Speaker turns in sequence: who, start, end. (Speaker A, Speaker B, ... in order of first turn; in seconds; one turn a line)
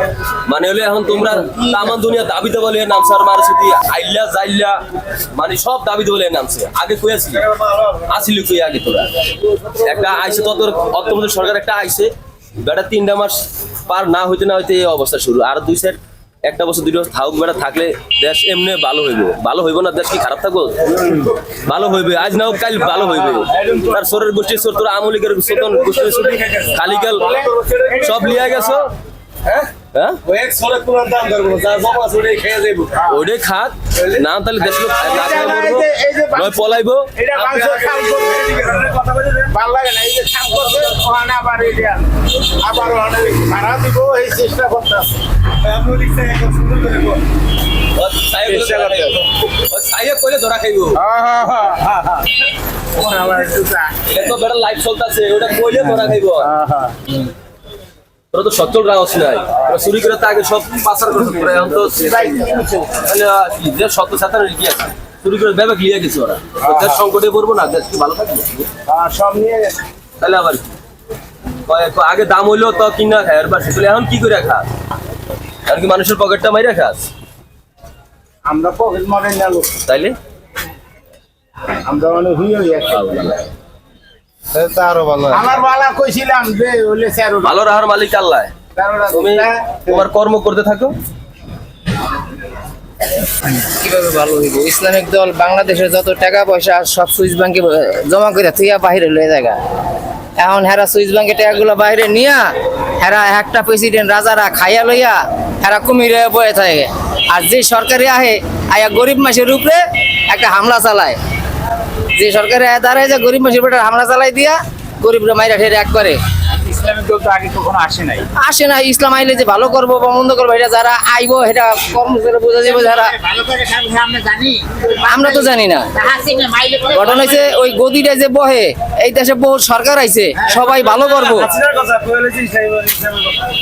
Speaker A: 0.5-9.1
Speaker B: 1.3-1.7
Speaker A: 9.7-27.4
Speaker B: 25.8-28.9
Speaker A: 28.0-28.9
Speaker A: 29.5-30.2
Speaker B: 30.3-33.1
Speaker A: 33.1-37.1
Speaker B: 34.7-47.2
Speaker A: 47.9-51.0
Speaker B: 48.5-49.2
Speaker B: 50.9-52.3
Speaker B: 53.0-54.0
Speaker A: 54.1-56.5
Speaker B: 55.9-57.2
Speaker A: 58.3-68.7
Speaker B: 61.9-62.9
Speaker B: 66.6-67.0
Speaker B: 68.9-69.8
Speaker A: 70.2-70.7
Speaker A: 71.7-74.7
Speaker A: 75.7-77.1
Speaker B: 78.5-79.8
Speaker A: 79.9-80.2
Speaker B: 81.8-83.3
Speaker A: 82.9-83.5
Speaker B: 84.6-87.7
Speaker A: 87.4-88.5
Speaker B: 88.8-90.0
Speaker A: 89.1-91.0
Speaker C: 93.5-99.6
Speaker C: 100.4-111.2
Speaker C: 112.1-116.2
Speaker D: 116.5-118.3
Speaker C: 118.4-123.1
Speaker E: 122.6-124.7
Speaker C: 125.0-125.9
Speaker E: 125.9-127.5
Speaker C: 126.9-131.6
Speaker D: 131.6-133.4